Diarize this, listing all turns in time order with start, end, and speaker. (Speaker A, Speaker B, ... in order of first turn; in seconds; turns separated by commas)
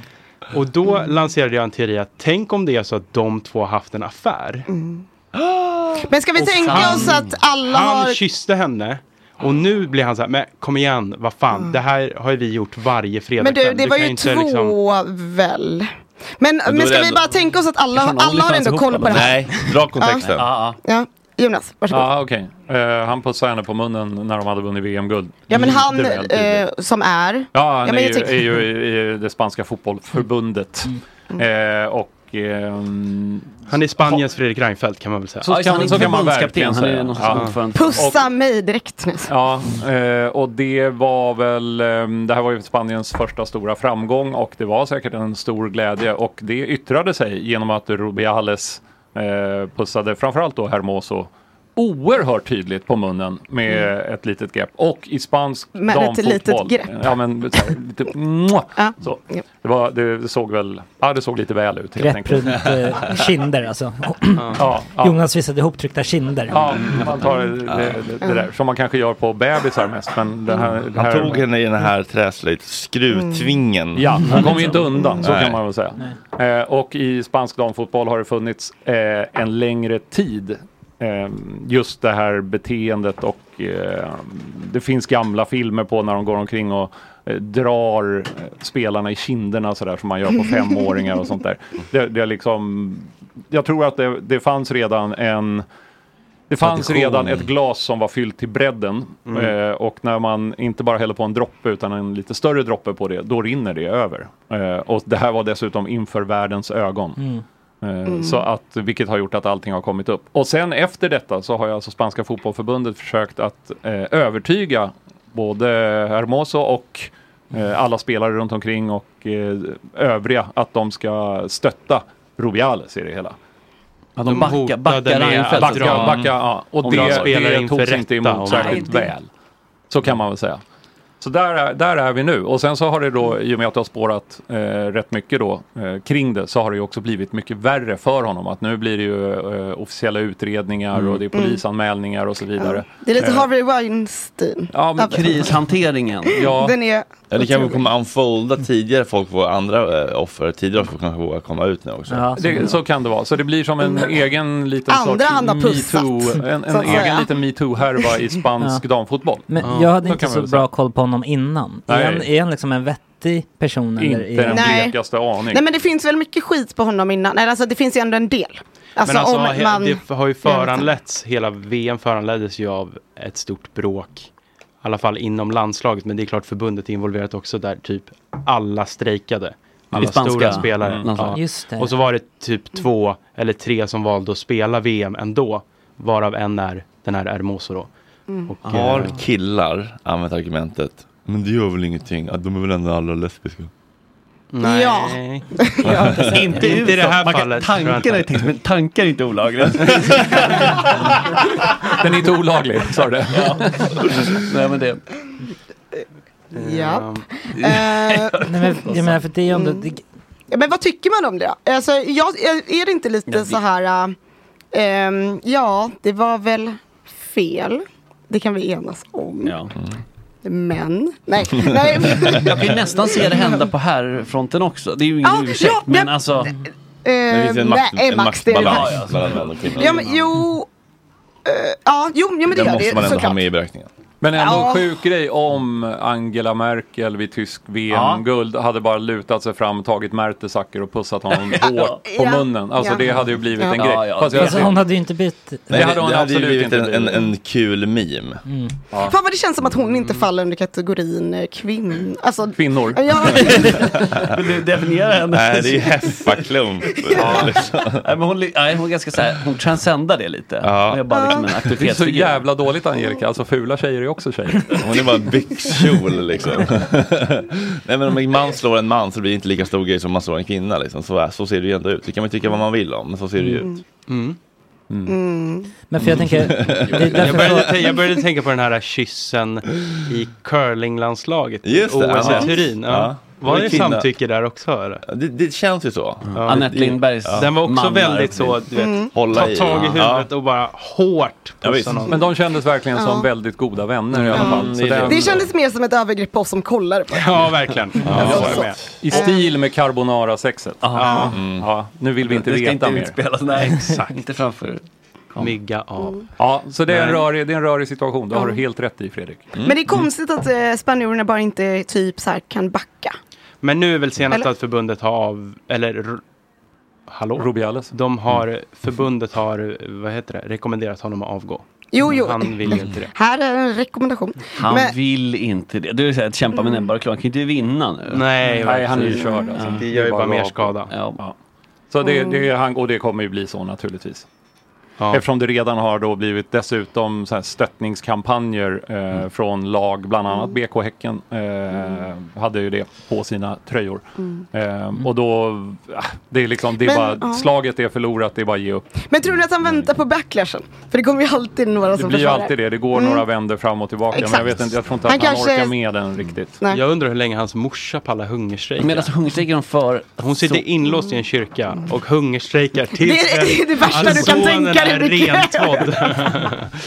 Speaker A: 0.5-4.7, Speaker B: 4.7-5.0, Speaker C: 5.4-6.0, Speaker B: 6.1-8.2, Speaker A: 6.3-14.8, Speaker D: 6.7-7.1, Speaker B: 13.4-22.1, Speaker D: 16.7-17.3, Speaker D: 17.9-20.8, Speaker C: 19.1-20.5, Speaker E: 21.9-26.6, Speaker B: 25.5-28.6, Speaker E: 27.5-33.7, Speaker A: 33.7-35.7, Speaker E: 35.4-38.2, Speaker D: 35.4-38.1, Speaker B: 37.7-39.3, Speaker E: 39.3-62.6, Speaker B: 55.7-57.0, Speaker B: 58.8-59.4, Speaker F: 62.0-66.9, Speaker E: 64.6-65.2, Speaker E: 66.5-71.5, Speaker C: 67.7-68.0, Speaker C: 70.9-74.3, Speaker B: 73.1-73.6, Speaker E: 74.0-95.7, Speaker B: 75.0-75.3, Speaker C: 75.2-75.6, Speaker E: 96.5-107.2, Speaker D: 96.9-97.2, Speaker E: 107.8-123.4, Speaker B: 108.1-108.5, Speaker D: 124.2-126.2, Speaker A: 124.3-126.2, Speaker E: 125.5-129.3, Speaker C: 125.9-126.3, Speaker A: 126.8-128.9, Speaker D: 126.9-127.3, Speaker D: 128.6-128.9, Speaker E: 129.9-130.6, Speaker E: 131.2-143.5, Speaker B: 141.3-141.6, Speaker B: 142.6-145.3, Speaker E: 144.7-145.5, Speaker D: 145.1-146.5, Speaker B: 146.3-147.9, Speaker E: 146.3-146.8, Speaker C: 147.3-152.5, Speaker F: 152.1-152.7, Speaker E: 152.4-160.6, Speaker B: 153.8-154.2, Speaker B: 154.9-158.3, Speaker F: 159.5-164.8, Speaker A: 159.6-160.0, Speaker E: 161.9-162.3, Speaker E: 164.0-165.6, Speaker B: 164.5-170.9, Speaker A: 169.0-174.3, Speaker A: 174.8-187.9, Speaker D: 179.9-181.4, Speaker F: 181.3-182.0, Speaker B: 188.3-188.5, Speaker A: 188.5-189.1, Speaker C: 188.7-193.7, Speaker A: 194.5-195.5, Speaker B: 194.6-196.0, Speaker D: 195.8-200.9, Speaker C: 195.8-196.5, Speaker A: 196.1-198.3, Speaker E: 201.9-204.0, Speaker D: 203.3-205.0, Speaker A: 206.5-207.3, Speaker B: 206.5-208.4, Speaker D: 207.5-209.2, Speaker F: 208.4-210.0, Speaker B: 209.5-209.9, Speaker B: 210.5-214.1, Speaker D: 213.3-213.6, Speaker B: 214.7-219.6, Speaker D: 219.4-219.7, Speaker B: 220.4-223.6, Speaker D: 222.2-226.6, Speaker B: 225.2-226.2, Speaker B: 227.0-229.1, Speaker C: 227.3-230.1, Speaker D: 228.6-230.2, Speaker B: 229.8-230.7, Speaker B: 231.4-233.4, Speaker C: 232.5-233.9, Speaker E: 234.2-244.8, Speaker B: 234.3-234.9, Speaker D: 237.9-238.2, Speaker D: 241.6-241.9, Speaker B: 241.6-244.0, Speaker D: 243.8-244.8, Speaker F: 244.3-245.7, Speaker C: 245.7-248.4, Speaker E: 245.7-247.3, Speaker F: 248.5-248.7, Speaker B: 249.0-254.1, Speaker E: 252.6-253.1, Speaker D: 253.3-256.5, Speaker C: 255.3-258.0, Speaker B: 256.9-257.5, Speaker D: 257.2-262.5, Speaker E: 257.2-257.5, Speaker C: 260.6-261.0, Speaker B: 261.1-261.5, Speaker E: 261.8-264.7, Speaker C: 264.8-273.7, Speaker A: 274.1-274.4, Speaker B: 275.1-275.7, Speaker F: 275.9-277.9, Speaker C: 276.0-277.6, Speaker A: 277.2-285.1, Speaker C: 281.6-284.1, Speaker B: 282.3-282.6, Speaker C: 285.1-287.5, Speaker D: 286.3-288.6, Speaker A: 286.4-286.7, Speaker A: 287.4-292.1, Speaker B: 288.8-289.1, Speaker C: 289.1-290.3, Speaker C: 291.6-292.1, Speaker E: 292.1-295.4, Speaker B: 292.1-293.3, Speaker C: 294.1-295.5, Speaker B: 294.3-297.6, Speaker A: 297.1-298.9, Speaker D: 298.1-298.6, Speaker C: 298.2-298.6, Speaker E: 298.2-303.2, Speaker B: 298.3-299.6, Speaker D: 300.8-301.4, Speaker A: 301.0-301.3, Speaker B: 301.0-301.3, Speaker C: 301.3-301.7, Speaker D: 302.3-304.8, Speaker A: 303.5-304.2, Speaker A: 305.4-306.2, Speaker E: 306.4-309.5, Speaker B: 308.3-308.6, Speaker B: 309.6-313.2, Speaker A: 313.6-316.2, Speaker A: 317.1-323.1, Speaker E: 317.4-317.9, Speaker B: 321.9-324.9, Speaker D: 324.6-329.9, Speaker A: 328.1-330.9, Speaker E: 328.6-331.4, Speaker B: 329.2-329.6, Speaker D: 330.9-331.2, Speaker E: 331.9-334.3, Speaker B: 332.1-332.4, Speaker E: 335.1-349.1, Speaker B: 340.3-340.6, Speaker B: 346.8-347.5, Speaker B: 349.0-353.2, Speaker E: 351.9-356.6, Speaker B: 354.1-355.7, Speaker A: 356.7-359.2, Speaker D: 358.8-360.7, Speaker A: 360.2-366.7, Speaker B: 363.0-366.3